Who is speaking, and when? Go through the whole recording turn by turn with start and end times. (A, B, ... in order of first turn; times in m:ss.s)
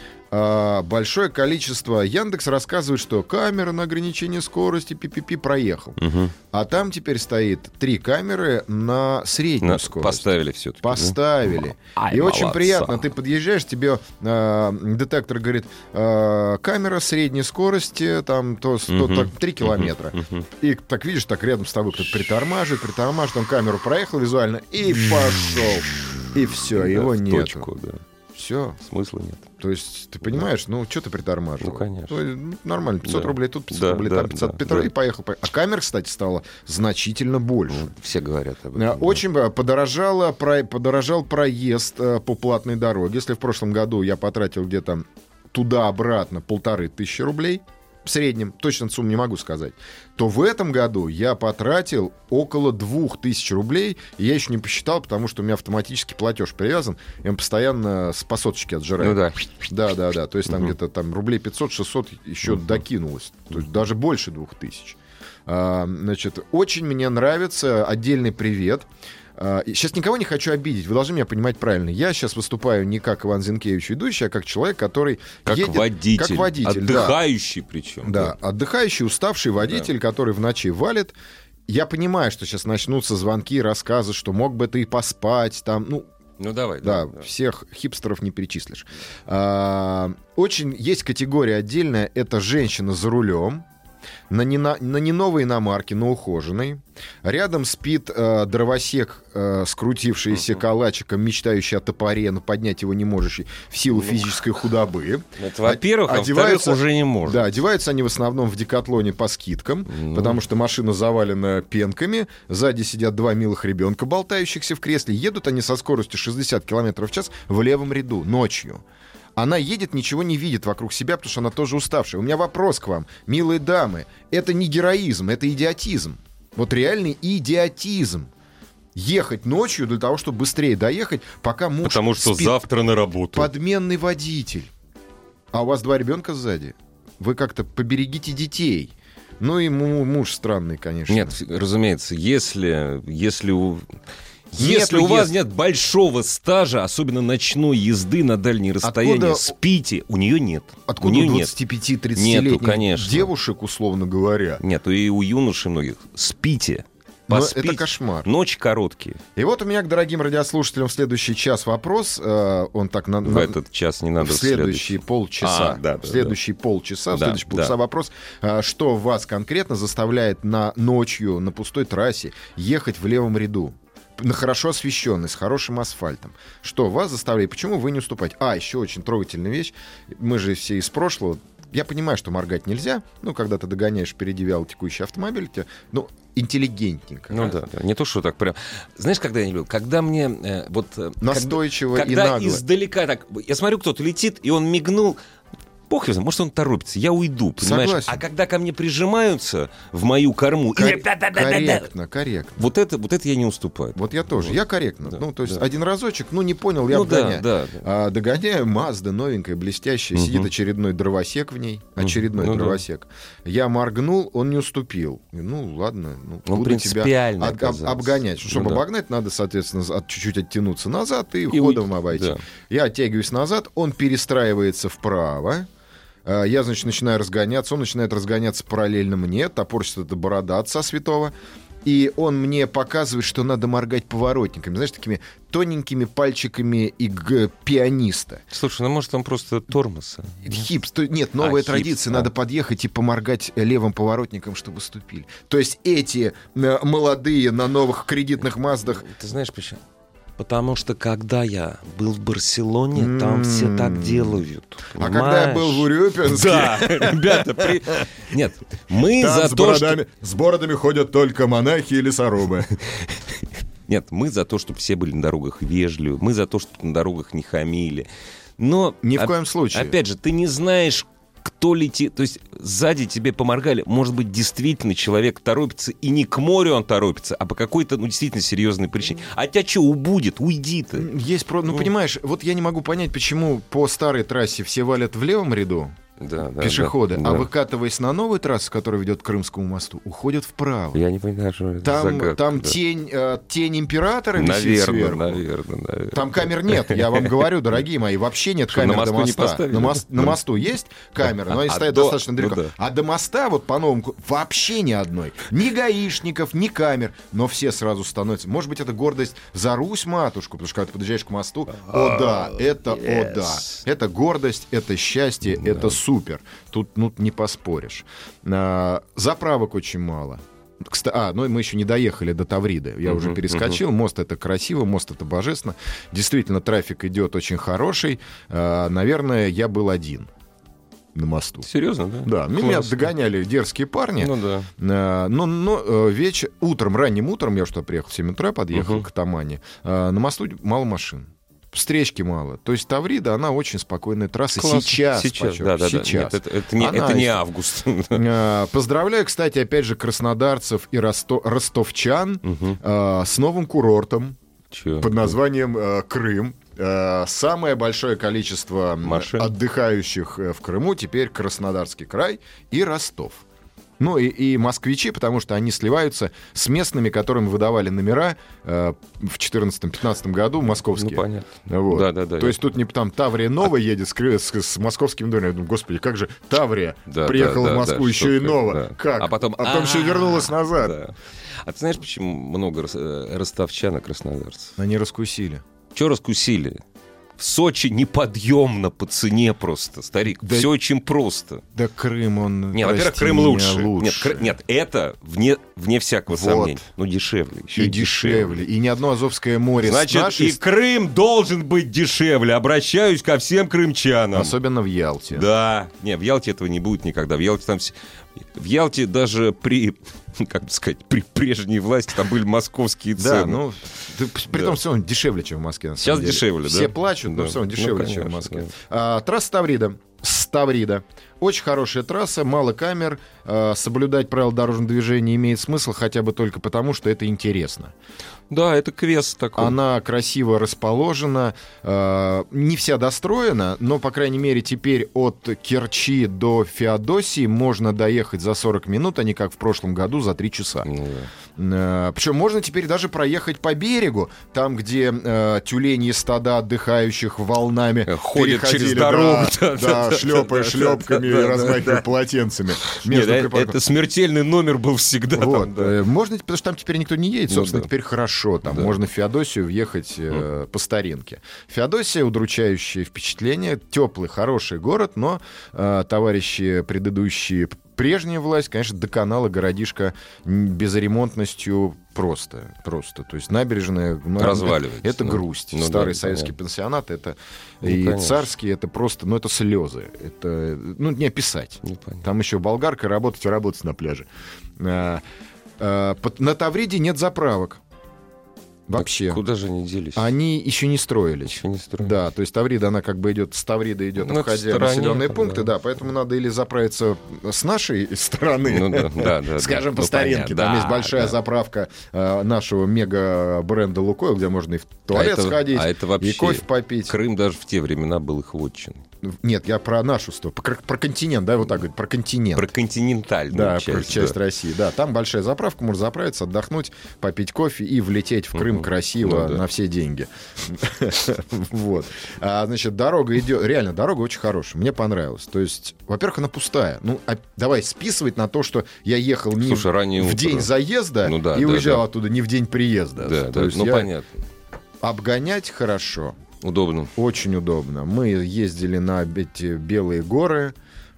0:00.3-0:06.0 A
0:06.0-0:06.3 B
0:06.5-0:10.3 A
0:09.6-0:13.0 B
0:10.8-0:27.7 A
0:18.9-0:20.4 B
0:26.1-0:28.0 B
0:28.3-0:28.8 A
0:28.8-0:29.5 B
0:29.6-0:37.9 A
0:31.6-0:32.2 B
0:33.0-0:34.9 B
0:37.7-0:39.2 B
0:38.7-1:17.2 A
0:59.0-0:59.5 B
1:15.4-1:18.3 B
1:18.0-1:21.1 A
1:21.7-1:26.1 A
1:26.4-1:27.2 B
1:26.8-1:33.6 A
1:34.3-1:58.8 A
1:45.4-1:47.4 B
1:49.9-1:50.4 B
1:59.4-2:08.3 A
2:08.9-2:12.6 A
2:11.8-2:13.5 B
2:13.3-2:14.7 A
2:15.5-2:21.4 A
2:21.1-2:23.8 B
2:24.5-2:31.6 B
2:24.5-2:25.3 A
2:28.8-2:29.5 A
2:30.9-2:34.6 A
2:32.1-2:33.3 B
2:34.6-2:39.2 B
2:37.3-2:38.3 A
2:39.4-2:43.6 A
2:43.2-2:46.4 B
2:44.2-3:07.6 A
2:47.1-2:47.7 B
3:07.3-3:15.2 B
3:11.2-3:12.6 A
3:15.9-3:21.9 B
3:17.6-3:18.2 A
3:20.7-3:22.7 A
3:22.6-3:24.6 B
3:24.0-3:45.7 A
3:25.2-3:25.6 B
3:26.9-3:27.8 B
3:30.1-3:30.5 B
3:32.0-3:32.8 B
3:36.4-3:38.8 B
3:41.5-3:42.4 B
3:46.2-3:58.4 A
3:58.5-4:00.7 B
4:00.4-4:09.1 A
4:01.4-4:02.3 B
4:08.9-4:09.8 B
4:10.4-4:20.0 B
4:12.9-4:14.4 A
4:14.9-4:18.1 A
4:19.2-4:22.7 A
4:23.9-4:28.1 B
4:28.6-4:41.1 B
4:29.0-4:30.0 A
4:40.9-4:46.0 A
4:46.2-4:47.5 B
4:46.6-4:51.0 A
4:50.9-4:52.8 B
4:51.8-4:55.4 A
4:54.3-4:57.4 B
4:56.1-5:30.3 A
4:58.7-5:00.4 B
5:01.3-5:02.7 B
5:11.7-5:13.8 B
5:15.5-5:16.0 B
5:23.0-5:23.8 B
5:31.1-5:31.7 A
5:31.6-5:33.1 B
5:32.2-5:47.4 A
5:34.2-5:34.7 B
5:38.7-5:39.1 B
5:44.6-5:48.2 B
5:48.1-5:54.4 A
5:52.4-5:52.8 B
5:54.7-5:55.3 B
5:55.0-6:03.4 A
5:59.0-5:59.5 B
6:04.0-6:21.0 A
6:10.9-6:12.6 B
6:17.1-6:24.7 B
6:24.8-6:25.6 A
6:25.9-6:26.8 B
6:27.4-6:31.6 B
6:30.4-6:30.7 A
6:31.7-6:34.5 A
6:32.7-6:38.6 B
6:36.3-6:36.8 A
6:37.7-6:40.6 A
6:39.8-6:44.6 B
6:44.3-6:45.5 A
6:45.3-6:53.6 B
6:53.2-7:07.9 A
6:56.0-6:58.7 B
7:08.5-7:09.8 B
7:09.6-7:20.9 A
7:20.8-7:21.3 B
7:21.6-7:33.8 A
7:28.0-7:32.0 B
7:32.8-7:36.0 B
7:35.3-8:05.2 A
7:37.5-7:37.9 B
7:38.6-7:38.9 B
7:54.4-7:56.5 B
7:57.8-7:58.5 B
8:01.8-8:02.2 B
8:05.8-8:07.8 A
8:08.9-8:09.4 A
8:09.0-8:10.3 B
8:10.1-8:27.1 A
8:11.5-8:12.2 B
8:14.2-8:15.7 B
8:18.7-8:21.4 B
8:25.1-8:29.0 B
8:29.2-8:32.7 A
8:32.6-8:34.4 B
8:33.5-8:54.1 A
8:38.6-8:39.6 B
8:49.6-8:50.7 B
8:51.2-8:52.0 B
8:53.2-8:54.4 B
8:55.0-8:56.4 A
8:56.6-8:57.1 B
8:57.2-9:00.7 A